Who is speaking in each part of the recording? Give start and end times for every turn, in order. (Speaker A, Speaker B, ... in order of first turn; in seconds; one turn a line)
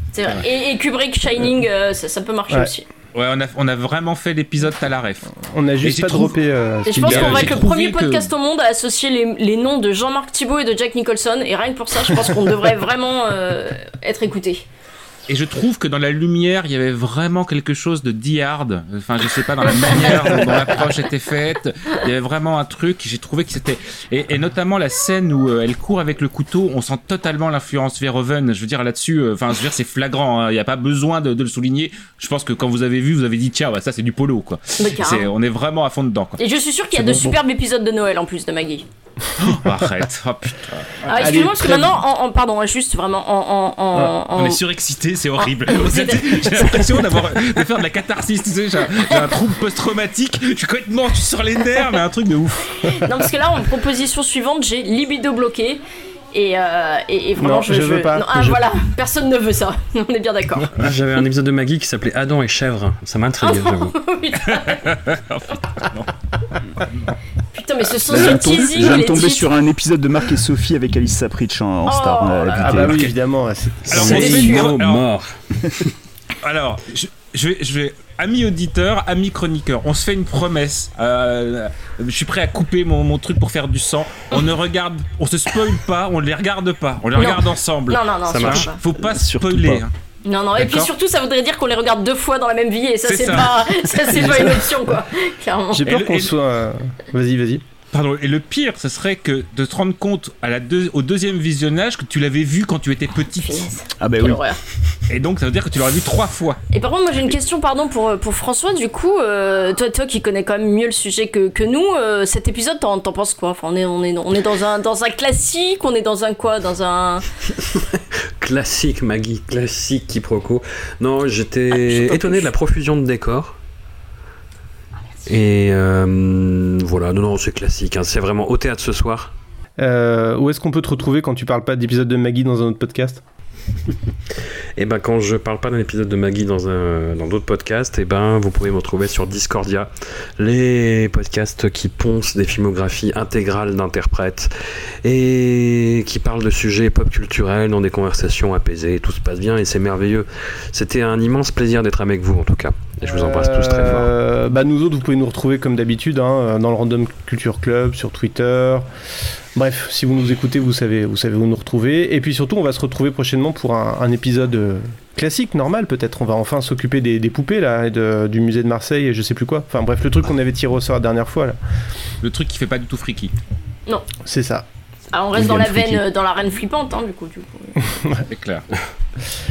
Speaker A: 0.1-2.9
Speaker B: 3.1-6.4
Speaker C: 5.4-7.6
Speaker A: 6.8-14.7
Speaker B: 6.9-8.3
Speaker B: 15.3-36.4
Speaker A: 19.8-20.4
Speaker A: 34.8-35.3
Speaker A: 36.4-38.9
Speaker C: 36.9-37.3
Speaker B: 39.4-41.4
Speaker A: 41.0-44.6
Speaker C: 41.1-42.0
Speaker B: 44.3-53.0
Speaker A: 45.4-47.0
Speaker A: 53.0-60.8
Speaker C: 57.4-58.6
Speaker D: 60.8-64.0
Speaker A: 63.4-65.0
Speaker B: 64.8-67.1
Speaker A: 67.5-69.5
Speaker E: 68.0-73.1
Speaker A: 71.8-72.7
Speaker B: 72.5-73.2
Speaker C: 72.6-74.5
Speaker B: 73.9-75.1
Speaker D: 73.9-75.9
Speaker A: 74.1-74.7
Speaker B: 76.4-89.9
Speaker A: 87.2-88.8
Speaker D: 88.3-88.7
Speaker E: 89.0-89.8
Speaker A: 90.2-95.9
Speaker B: 90.6-90.9
Speaker B: 93.0-94.7
Speaker C: 95.7-97.6
Speaker B: 95.8-96.3
Speaker B: 97.9-103.7
Speaker A: 103.3-104.6
Speaker E: 104.0-104.4
Speaker B: 105.1-106.6
Speaker A: 106.7-117.2
Speaker D: 117.7-123.6
Speaker A: 121.7-122.5
Speaker D: 125.2-129.3
Speaker C: 129.8-133.2
Speaker D: 134.8-144.5
Speaker D: 145.0-154.1
Speaker C: 153.0-158.9
Speaker C: 159.5-171.6
Speaker B: 172.2-173.3
Speaker C: 174.2-174.7
Speaker A: 175.1-177.8
Speaker C: 175.4-175.6
Speaker D: 175.5-176.0
Speaker C: 178.0-178.2
Speaker B: 178.3-178.6